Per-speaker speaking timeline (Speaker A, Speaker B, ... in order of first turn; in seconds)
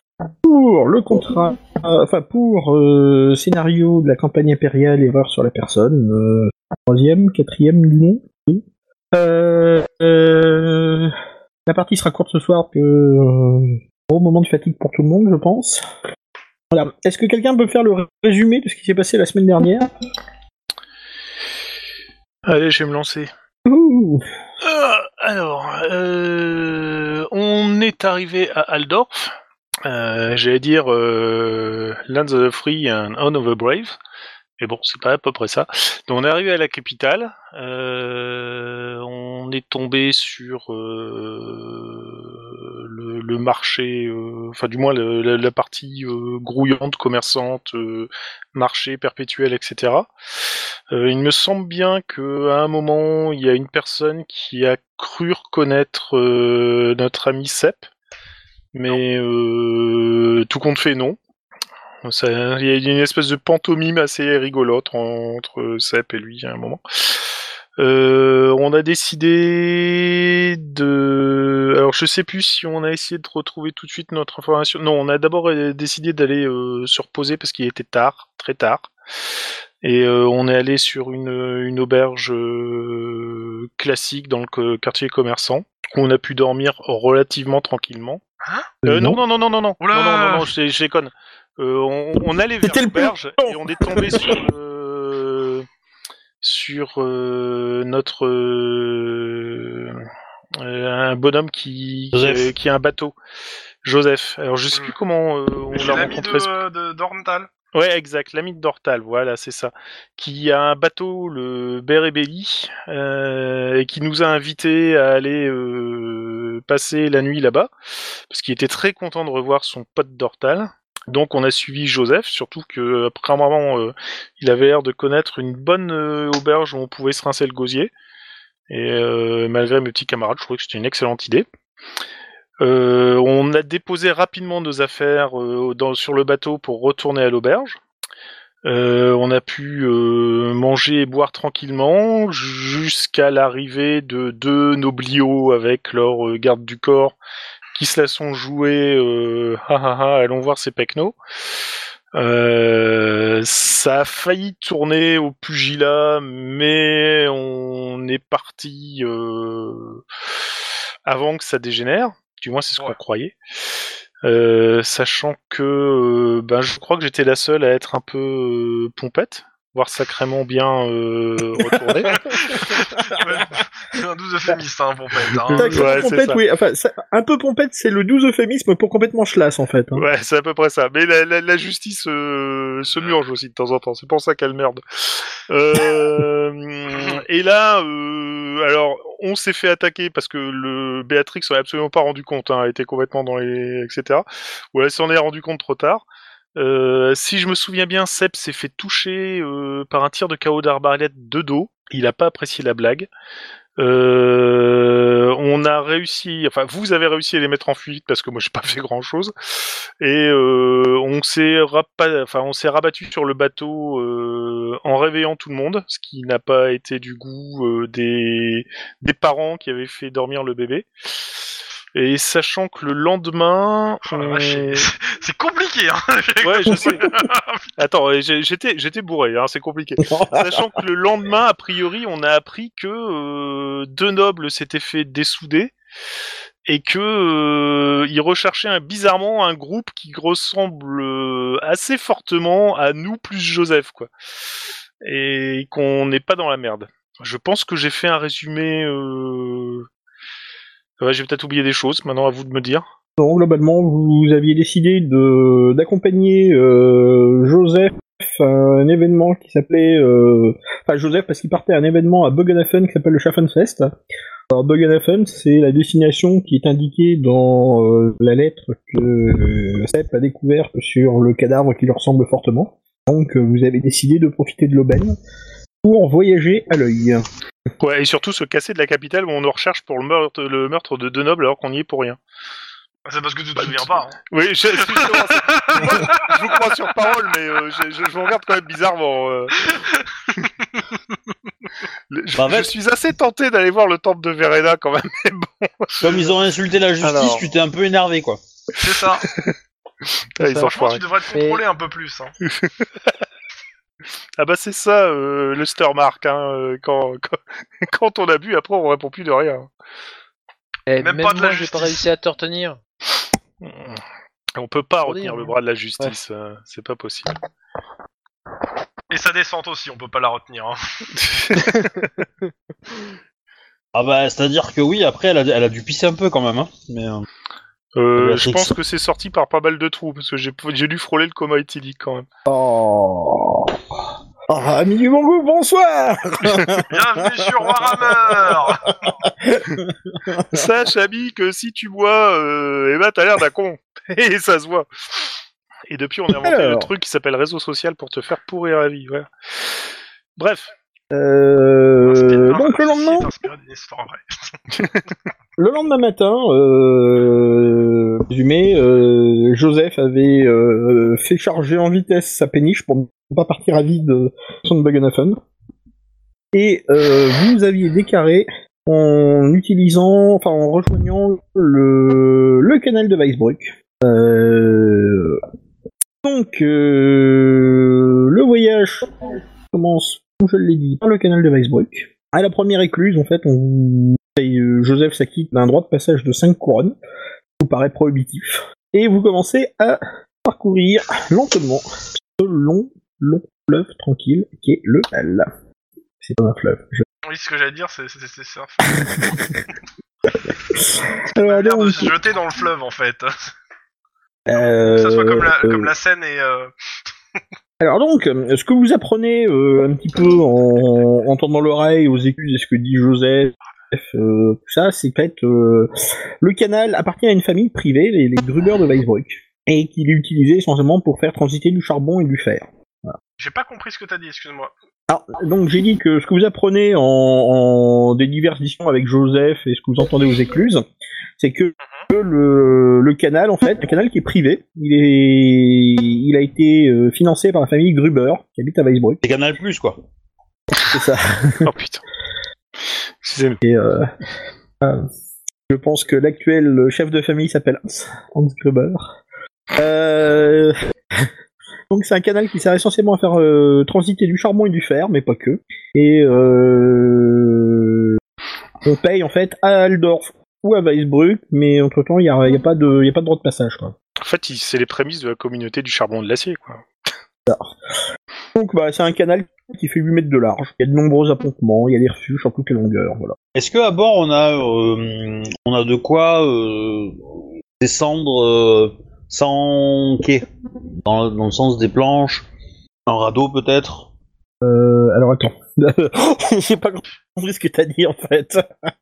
Speaker A: 0.4-11.2, 11.7-15.8, 16.7-19.9, 23.7-24.2, 88.8-89.2, 92.7-94.4, 175.5-180.1, 226.7-227.1, 230.1-230.7, 253.2-263.9, 264.5-275.2, 275.8-277.3, 332.5-333.8, 334.5-340.6, 346.3-346.9, 351.1-353.3, 355.6-365.4, 366.5-375.4, 376.2-379.1, 379.7-387.0, 387.6-395.5, 396.2-397.1, 398.9-399.6, 400.4-402.1, 404.5-405.9, 407.8-415.9, 416.4-423.2, 425.1-430.9, 431.4-439.2, 440.9-441.7, 443.6-444.1, 444.8-445.1, 445.7-449.1, 449.8-451.3, 451.9-458.2, 458.8-463.9, 467.5-467.7, 468.6-473.4, 484.6-488.6
Speaker B: 22.5-23.3, 24.6-29.3, 29.9-34.0, 34.6-50.1, 50.9-57.9, 58.7-61.2, 62.0-67.2, 67.8-78.9, 79.8-88.2, 88.9-95.7, 96.4-100.0, 100.6-103.2, 103.8-106.6, 107.7-117.7, 118.3-127.9, 128.7-131.5, 132.6-137.8, 138.7-147.2, 147.8-151.2, 152.2-160.0, 161.1-163.4, 164.2-172.6, 175.6-176.4, 179.9-196.1, 196.6-203.1, 203.8-224.9, 226.4-227.1, 227.8-235.7, 236.7-244.1, 245.0-249.9, 251.0-252.8, 277.8-282.2, 283.6-289.7, 292.1-296.3, 297.0-297.4, 298.9-299.5, 300.4-301.0, 302.5-302.9, 304.4-309.7, 313.6-314.0, 314.6-317.3, 321.2-322.1, 328.0-332.3, 340.5-345.4, 345.9-350.7, 441.6-442.0, 443.2-443.6, 464.2-466.8
Speaker C: 88.4-88.7, 89.8-90.5, 105.7-107.5, 172.1-176.1, 186.9-187.2, 224.1-227.7, 283.1-284.2, 284.8-286.4, 289.7-290.7, 298.8-299.3, 300.5-302.3, 311.0-312.1, 319.1-320.8, 336.9-339.0, 352.1-354.6, 397.2-399.3, 401.4-403.3, 404.6-406.7, 423.4-424.7
Speaker D: 102.1-102.5, 292.4-292.7, 296.0-298.4, 323.9-327.2, 328.2-328.8, 439.2-440.0, 473.6-477.2, 477.8-480.5, 481.1-482.5, 483.1-484.1
Speaker E: 300.4-300.7, 301.3-301.6, 310.9-312.8, 315.1-316.1